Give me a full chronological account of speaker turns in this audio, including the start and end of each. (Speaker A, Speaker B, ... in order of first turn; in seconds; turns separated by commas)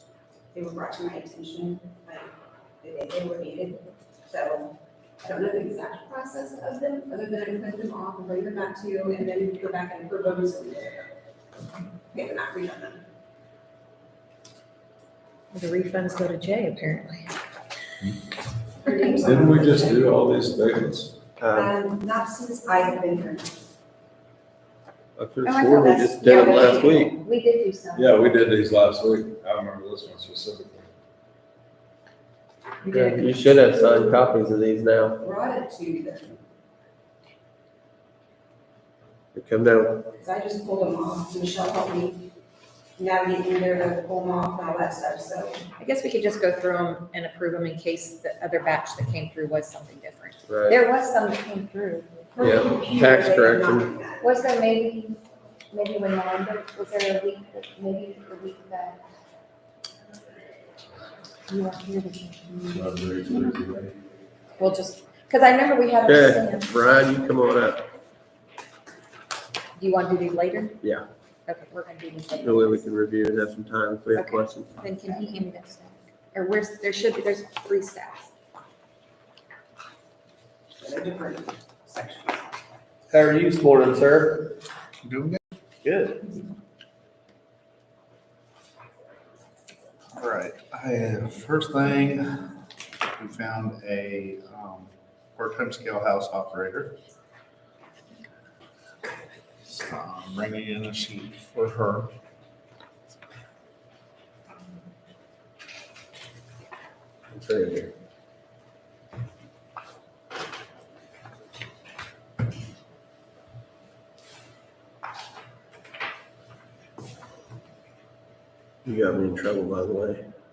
Speaker A: 0.5-11.1, Speaker A: 12.1-13.0, Speaker B: 15.5-17.3, Speaker A: 18.8-20.1, Speaker C: 19.2-21.2, Speaker D: 21.4-21.7, Speaker A: 21.5-23.5, Speaker D: 25.2-27.2, Speaker B: 25.5-28.3, Speaker A: 26.4-26.7, Speaker C: 27.9-30.9, Speaker D: 32.8-35.2, Speaker B: 32.9-33.3, Speaker A: 35.2-36.4, Speaker D: 39.3-40.1, Speaker A: 40.2-42.2, Speaker A: 43.0-45.7, Speaker B: 45.8-52.1, Speaker D: 50.5-50.8, Speaker A: 52.4-54.4, Speaker D: 52.4-53.9, Speaker B: 54.2-59.0, Speaker B: 61.5-63.0, Speaker C: 62.7-64.0, Speaker B: 64.6-66.7, Speaker D: 66.0-67.8, Speaker B: 69.8-70.8, Speaker B: 71.5-72.8, Speaker D: 72.4-74.7, Speaker B: 74.1-78.3, Speaker A: 80.8-82.5, Speaker D: 83.1-84.6, Speaker E: 85.0-85.4, Speaker D: 85.8-86.3, Speaker E: 90.1-92.5, Speaker E: 93.2-97.0, Speaker E: 99.6-102.1, Speaker D: 107.3-107.9, Speaker D: 118.8-120.2